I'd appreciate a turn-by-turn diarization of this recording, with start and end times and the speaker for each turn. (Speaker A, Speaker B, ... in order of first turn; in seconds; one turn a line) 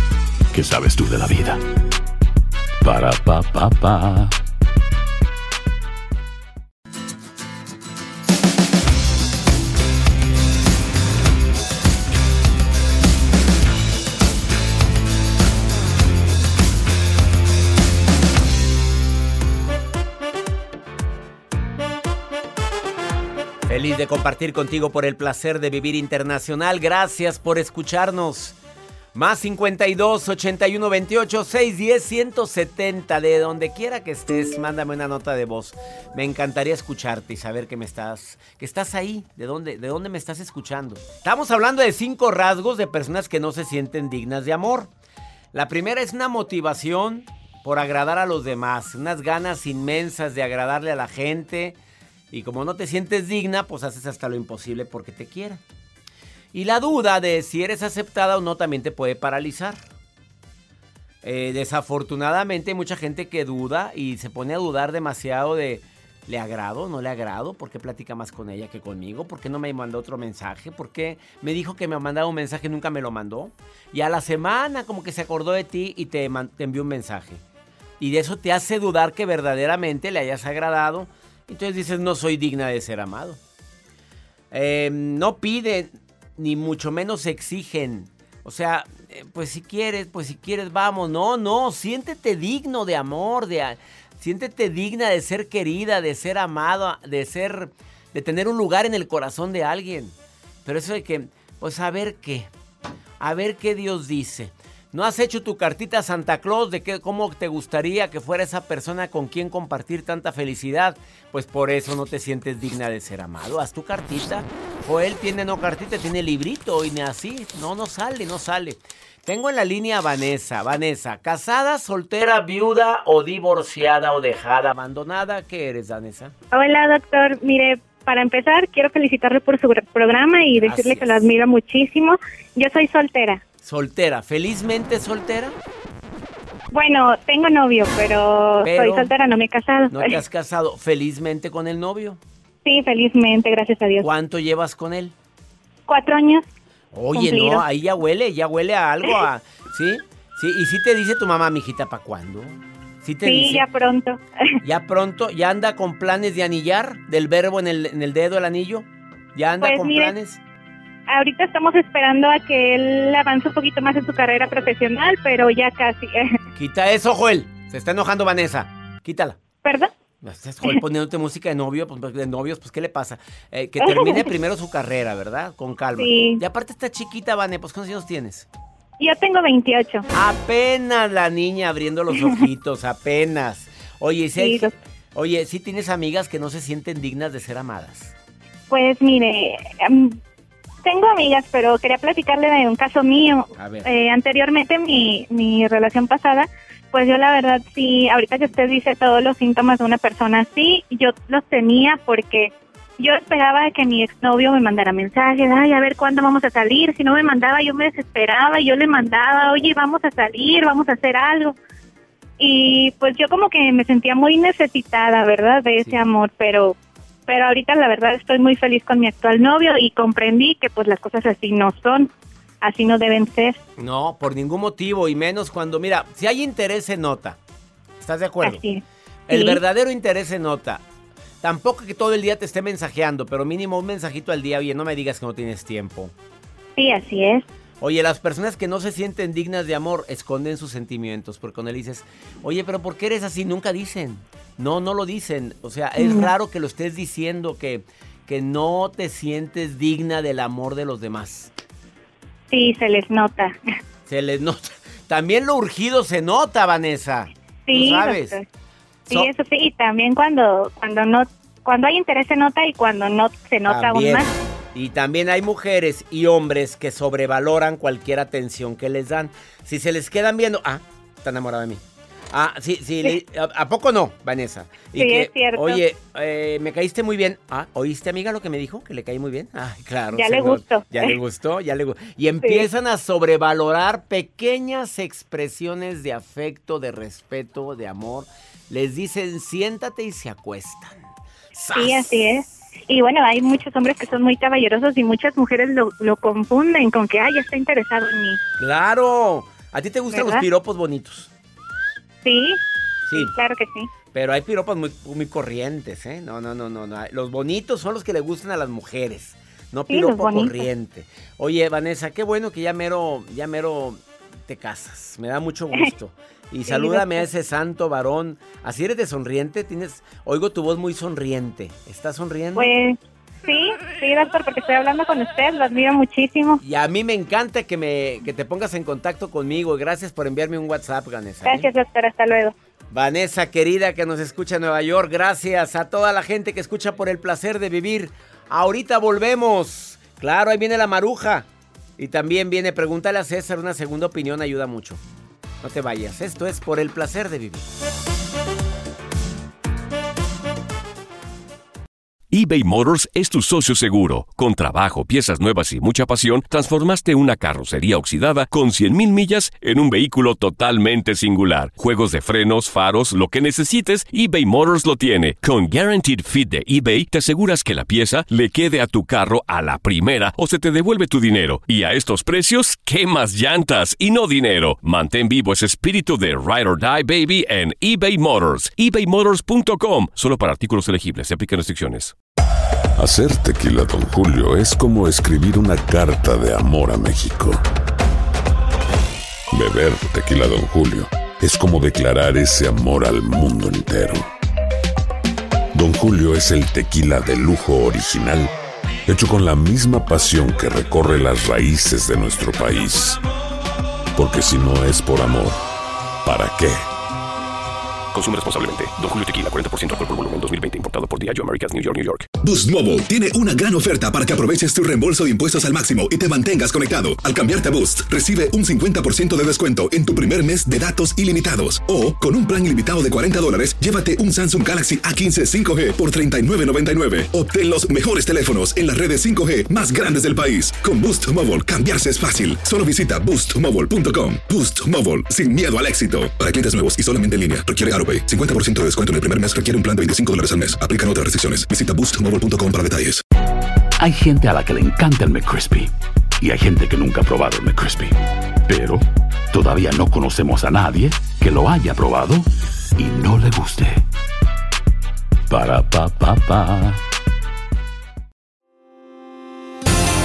Speaker A: 0.5-1.6
Speaker A: 2.8-4.3
Speaker B: 23.7-28.6
Speaker B: 29.1-44.9
Speaker B: 45.5-51.8
Speaker B: 52.3-55.6
Speaker B: 56.5-59.8
Speaker B: 61.2-77.4
Speaker B: 78.0-83.4
Speaker B: 84.5-100.1
Speaker B: 100.7-102.5
Speaker B: 103.2-126.3
Speaker C: 126.5-133.4
Speaker B: 130.6-131.3
Speaker B: 133.6-135.6
Speaker C: 136.7-140.2
Speaker B: 138.6-139.1
Speaker B: 139.9-142.2
Speaker C: 142.6-144.1
Speaker B: 144.0-145.1
Speaker C: 145.9-146.4
Speaker B: 146.9-153.6
Speaker C: 147.1-147.6
Speaker C: 153.2-154.2
Speaker B: 154.6-160.4
Speaker C: 159.6-160.1
Speaker C: 161.1-166.3
Speaker B: 166.6-169.4
Speaker C: 169.6-169.9
Speaker B: 170.2-178.5
Speaker C: 173.8-174.3
Speaker C: 176.0-176.4
Speaker C: 179.0-180.1
Speaker B: 180.1-188.1
Speaker C: 184.4-184.7
Speaker C: 188.7-190.2
Speaker C: 190.8-211.6
Speaker B: 193.6-193.9
Speaker C: 212.4-216.8
Speaker C: 217.3-222.1
Speaker C: 222.6-223.6
Speaker B: 223.8-227.4
Speaker B: 228.0-228.6
Speaker C: 228.4-229.6
Speaker B: 229.3-230.8
Speaker B: 231.4-236.1
Speaker C: 236.8-237.4
Speaker B: 237.8-251.5
Speaker C: 246.0-246.3
Speaker C: 252.5-253.6
Speaker B: 254.1-258.4
Speaker C: 257.6-258.4
Speaker C: 259.1-264.3
Speaker B: 263.7-271.8
Speaker B: 272.3-291.0
Speaker C: 274.9-275.8
Speaker C: 280.1-281.1
Speaker B: 291.6-292.2
Speaker C: 291.7-298.4
Speaker B: 298.6-301.3
Speaker C: 300.1-300.4
Speaker C: 302.2-302.6
Speaker C: 303.1-303.9
Speaker B: 304.1-322.7
Speaker C: 309.9-310.6
Speaker C: 316.7-317.2
Speaker C: 322.6-326.6
Speaker B: 326.6-331.7
Speaker C: 331.4-332.5
Speaker B: 332.9-341.5
Speaker B: 342.0-345.0
Speaker B: 345.6-347.7
Speaker D: 352.3-382.1
Speaker E: 383.0-387.6
Speaker E: 389.5-394.3
Speaker E: 395.7-398.5
Speaker E: 399.1-403.2
Speaker E: 404.1-405.6
Speaker E: 406.2-406.9
Speaker F: 412.4-443.2
Speaker A: 444.0-454.1
Speaker A: 455.5-457.0